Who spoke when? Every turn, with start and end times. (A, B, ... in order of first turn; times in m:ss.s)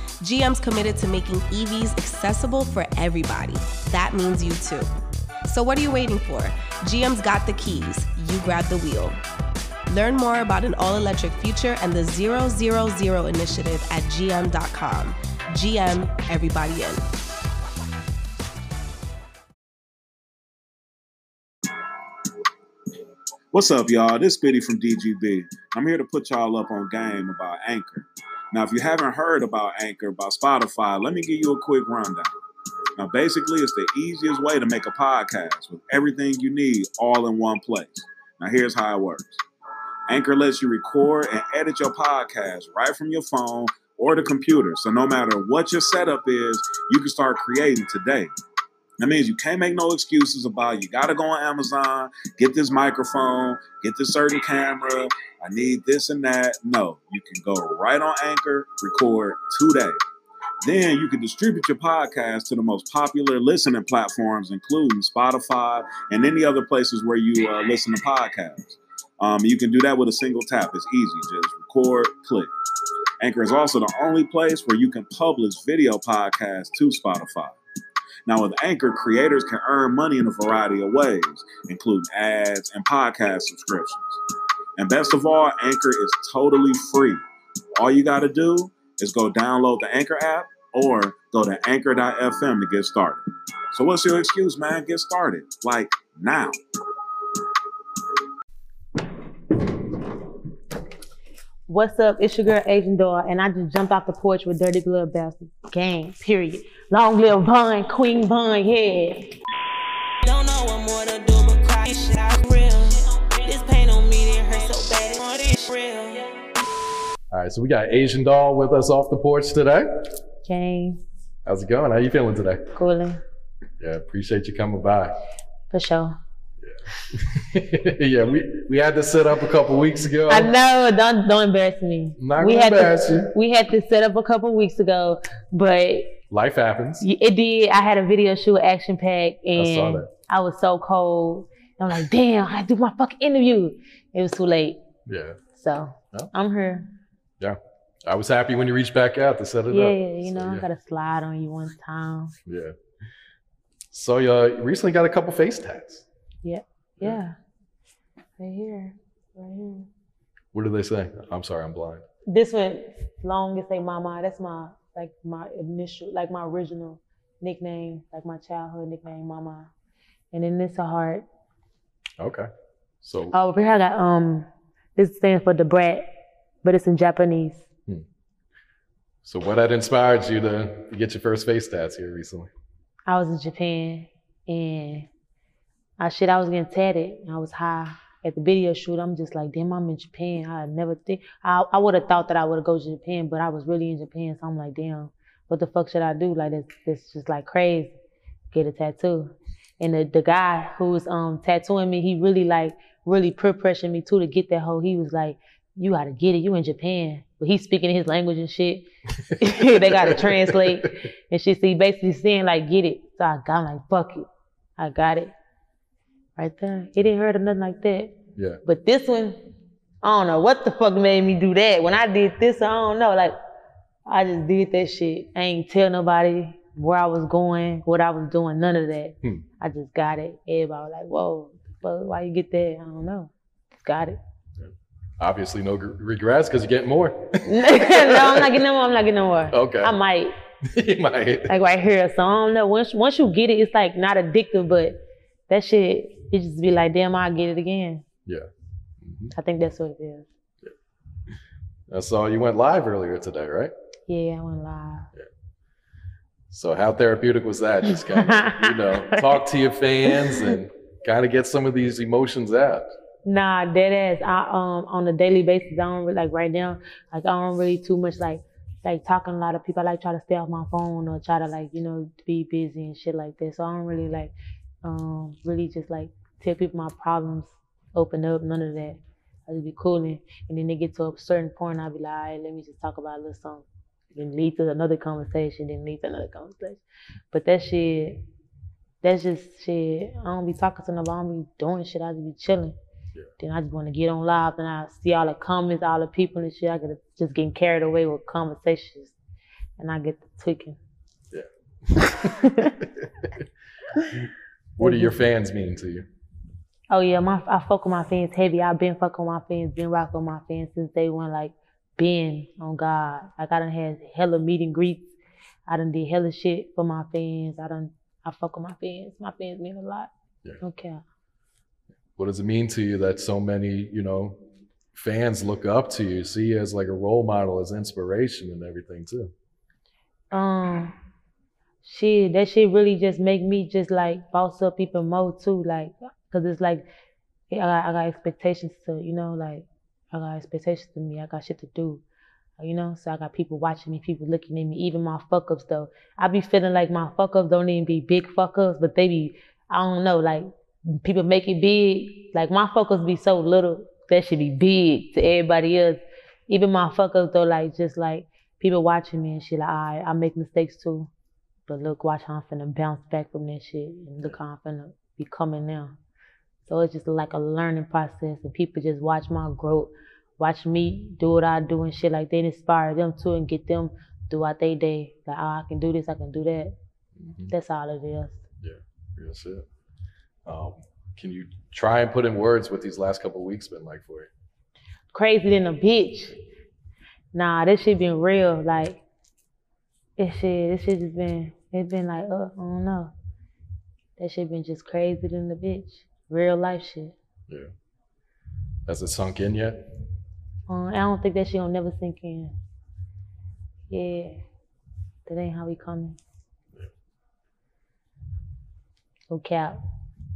0:00.2-0:04.9 A
0:05.5-0:09.2 A
0:09.9-0:17.0 A
0:23.5-0:32.3 B
0:33.0-0:39.4 B
0:40.1-0:48.3 B
0:49.0-1:00.0 B
1:00.6-1:12.5 B
1:13.2-1:17.6 B
1:18.3-1:24.2 B
1:24.8-1:27.2 B
1:27.8-1:36.6 B
1:41.7-1:49.3 C
1:50.2-1:56.3 C
1:57.3-2:00.1 D
2:00.5-2:01.0 C
2:01.4-2:02.7 D
2:02.7-2:03.2 C
2:03.8-2:05.2 D
2:05.7-2:06.2 C
2:06.6-2:10.5 D
2:10.3-2:16.2 C
2:12.2-2:13.3 D
2:16.3-2:17.0 D
2:17.0-2:24.8 C
2:19.6-2:20.1 D
2:25.1-2:25.4 D
2:25.5-2:26.9 C
2:27.4-2:30.7 D
2:29.7-2:32.3 C
2:32.5-2:32.8 D
2:33.9-2:36.0 D
2:36.4-2:37.4 C
2:38.4-2:39.9 C
2:40.5-2:42.0 D
2:42.3-2:49.7 C
2:50.3-2:51.2 C
2:52.2-2:52.5 D
2:53.0-2:53.3 D
2:53.3-2:56.0 C
2:56.6-2:57.6 C
2:59.2-3:02.5 D
3:03.1-3:05.1 C
3:06.0-3:17.9 C
3:18.5-3:34.3 C
3:29.7-3:30.9 D
3:34.8-3:35.3 C
3:36.4-3:39.4 C
3:40.0-3:43.4 C
3:44.1-3:54.2 C
3:54.6-3:58.5 D
3:57.5-4:00.4 C
3:59.5-4:00.0 D
4:00.6-4:01.5 D
4:01.5-4:08.0 C
4:09.0-4:09.3 D
4:09.3-4:10.3 C
4:11.9-4:13.7 D
4:14.1-4:15.1 C
4:16.5-4:22.9 D
4:18.0-4:19.4 C
4:20.1-4:20.5 C
4:23.2-4:34.3 C
4:34.8-4:48.2 C
4:49.0-4:52.8 C
4:53.4-4:59.2 C
4:59.8-5:00.8 C
5:01.3-5:02.3 D
5:02.0-5:02.8 C
5:02.8-5:03.4 D
5:04.8-5:06.1 D
5:04.8-5:05.1 C
5:06.9-5:15.1 C
5:15.7-5:20.1 C
5:20.6-5:21.0 C
5:22.2-5:24.4 D
5:24.9-5:29.3 D
5:30.3-5:30.9 C
5:31.8-5:36.9 C
5:37.5-5:42.0 C
5:42.6-6:01.1 C
6:01.7-6:06.0 C
6:06.7-6:16.8 C
6:17.2-6:17.5 D
6:17.5-6:18.4 C
6:18.6-6:19.6 D
6:20.5-6:24.3 D
6:25.1-6:26.4 C
6:27.3-6:29.0 C
6:30.2-6:33.1 C
6:34.2-6:37.2 C
6:38.9-6:39.8 D
6:40.7-6:42.5 C
6:43.9-6:44.4 C
6:45.3-6:46.2 C
6:49.3-6:49.8 C